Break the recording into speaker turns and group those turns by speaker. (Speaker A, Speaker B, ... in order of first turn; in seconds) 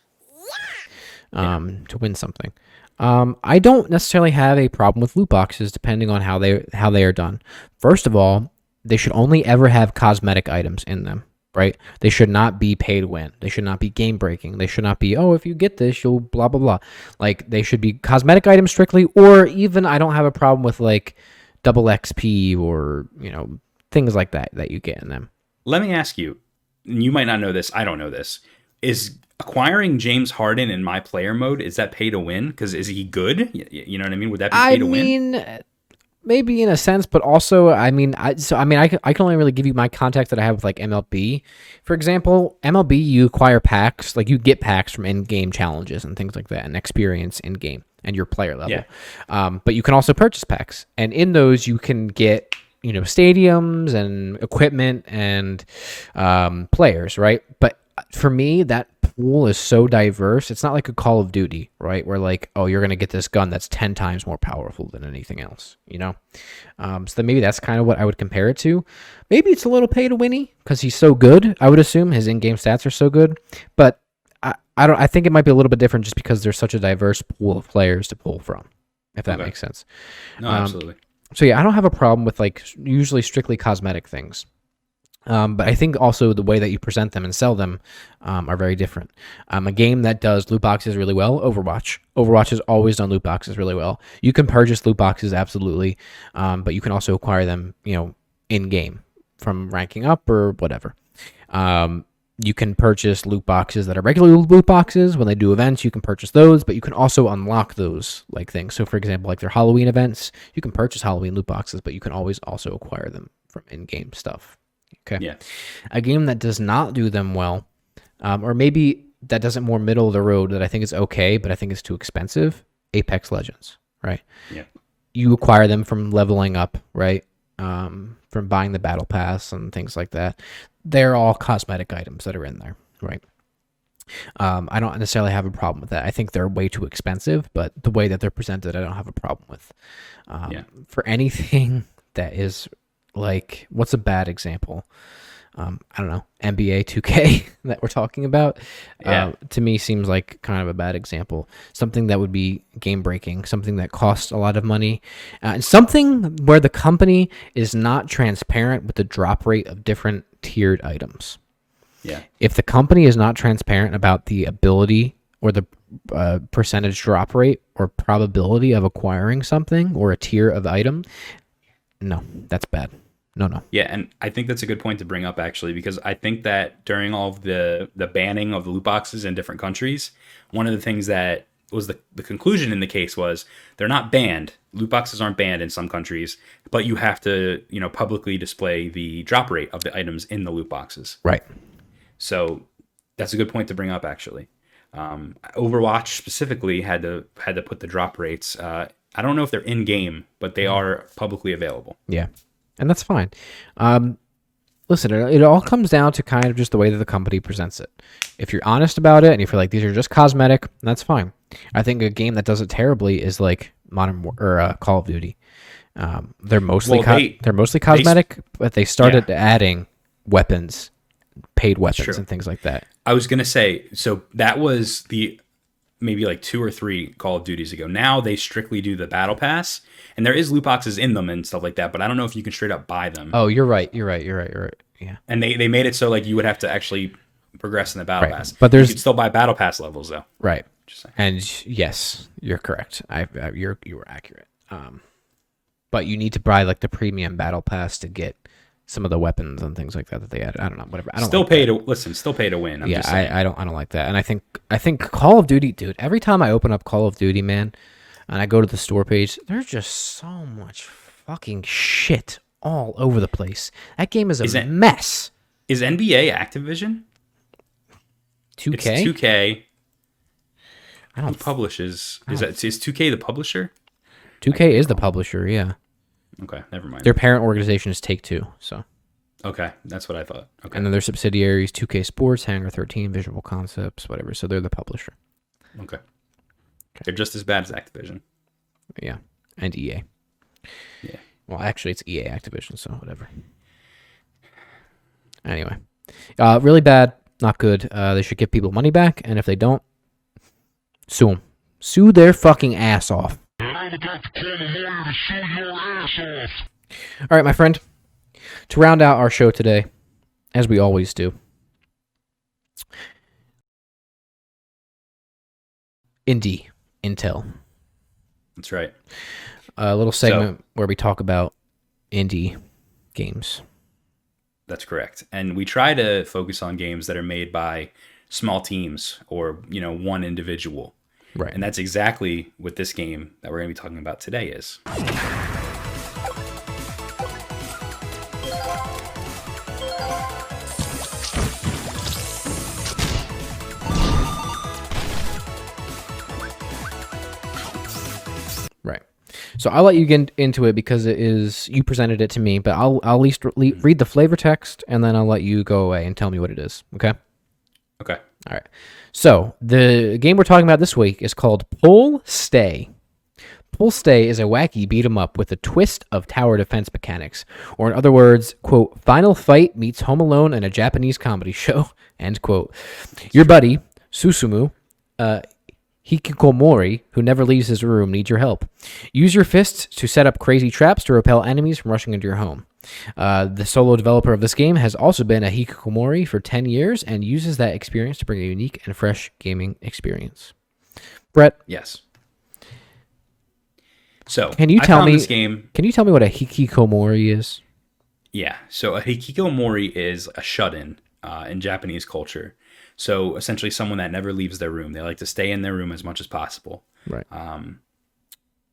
Speaker A: 1.3-25.3, 34.5-35.6, 36.2-66.2, 66.8-80.8, 81.3-84.5, 85.2-101.0, 101.5-117.7, 118.2-124.2, 125.1-133.2, 134.4-139.7, 140.3-144.9, 145.6-161.4, 162.4-171.3, 172.0-173.6, 202.8-204.2, 204.9-215.3, 215.9-220.9, 221.6-222.8, 233.3-235.2, 238.2-239.0, 240.4-245.0, 245.9-251.7, 252.8-257.7, 258.3-265.3, 268.6-269.1, 271.1-271.4, 274.4-275.7, 277.0-278.8, 280.7-285.1, 289.0-290.0, 291.5-293.3, 295.4-295.8, 296.4-299.8, 301.1-303.4, 307.3-307.8, 308.7-309.9, 310.5-311.4, 316.3-317.5, 319.8-321.5, 322.1-322.6, 323.1-323.6, 348.8-357.1, 358.4-362.9, 363.7-375.4, 376.0-390.5, 394.6-397.6
Speaker B: 25.6-35.1, 79.3-79.5, 80.4-81.0, 149.0-149.3, 173.7-191.2, 192.2-192.7, 193.2-202.0, 216.8-218.2, 219.0-219.2, 221.9-222.2, 223.0-225.4, 226.0-233.3, 235.3-240.3, 240.8-241.1, 251.2-253.3, 265.7-267.0, 268.7-269.6, 271.3-273.7, 274.5-275.1, 276.4-277.2, 279.4-280.9, 287.0-288.2, 318.6-318.9, 320.2-320.5, 324.7-330.9, 331.5-334.8, 391.7-392.0, 394.3-395.7, 398.3-407.8
Speaker C: 303.6-306.6